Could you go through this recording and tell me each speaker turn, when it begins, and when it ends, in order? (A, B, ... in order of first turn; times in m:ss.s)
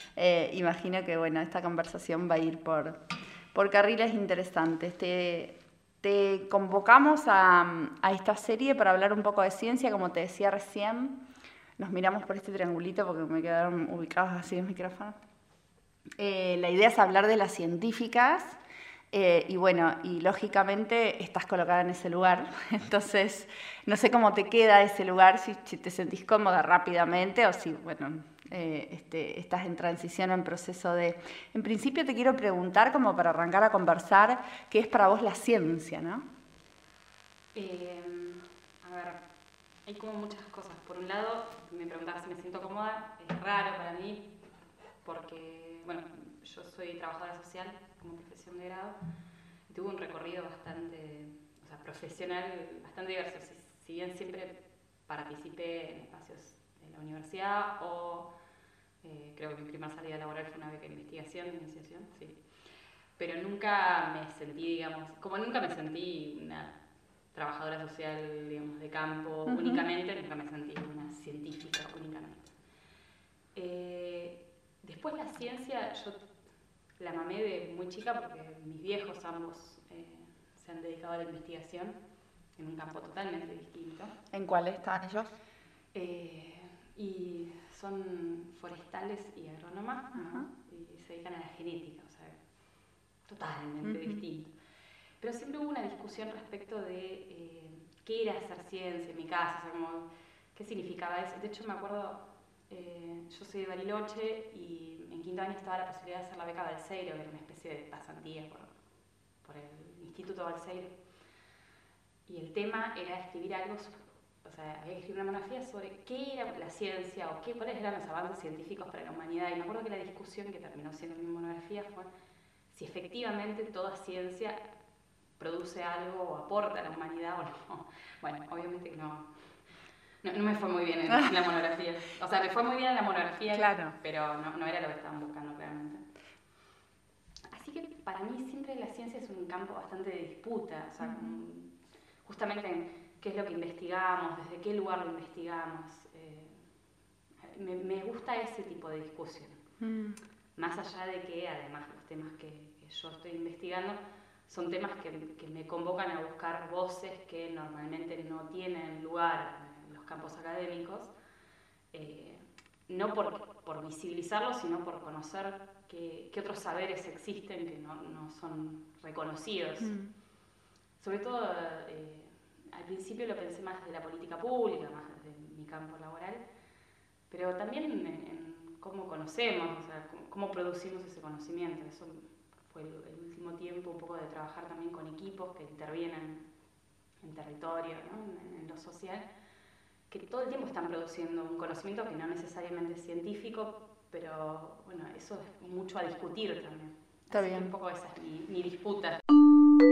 0:00.2-0:02.9 A
0:03.5-0:11.2 A
0:11.8-0:15.1 A
0:16.2-0:18.6 A
0:19.1-0:36.2 A
0:37.5-0:39.2 B
0:39.8-0:44.2 B
0:45.0-0:49.0 B
0:49.7-0:54.6 B
0:55.1-0:58.3 B
0:59.0-1:02.4 B
1:03.2-1:06.7 B
1:07.3-1:12.5 B
1:09.4-1:09.8 A
1:13.5-1:16.2 B
1:17.0-1:22.0 B
1:22.6-1:24.1 B
1:24.3-1:25.3 A
1:25.9-1:32.4 B
1:30.1-1:30.5 A
1:33.2-1:34.5 B
1:33.8-1:34.2 A
1:35.2-1:48.7 B
1:49.4-1:50.9 B
1:52.2-2:02.1 B
2:02.7-2:04.6 B
2:05.4-2:09.3 B
2:10.2-2:16.0 B
2:13.5-2:13.9 A
2:17.5-2:21.7 B
2:21.0-2:21.4 A
2:22.2-2:26.6 B
2:27.4-2:29.6 B
2:29.8-2:30.2 A
2:30.6-2:41.1 B
2:41.9-2:50.0 B
2:49.8-2:50.1 A
2:51.0-2:56.4 B
2:57.3-3:06.4 B
3:07.2-3:09.2 B
3:10.1-3:19.2 B
3:17.3-3:17.7 A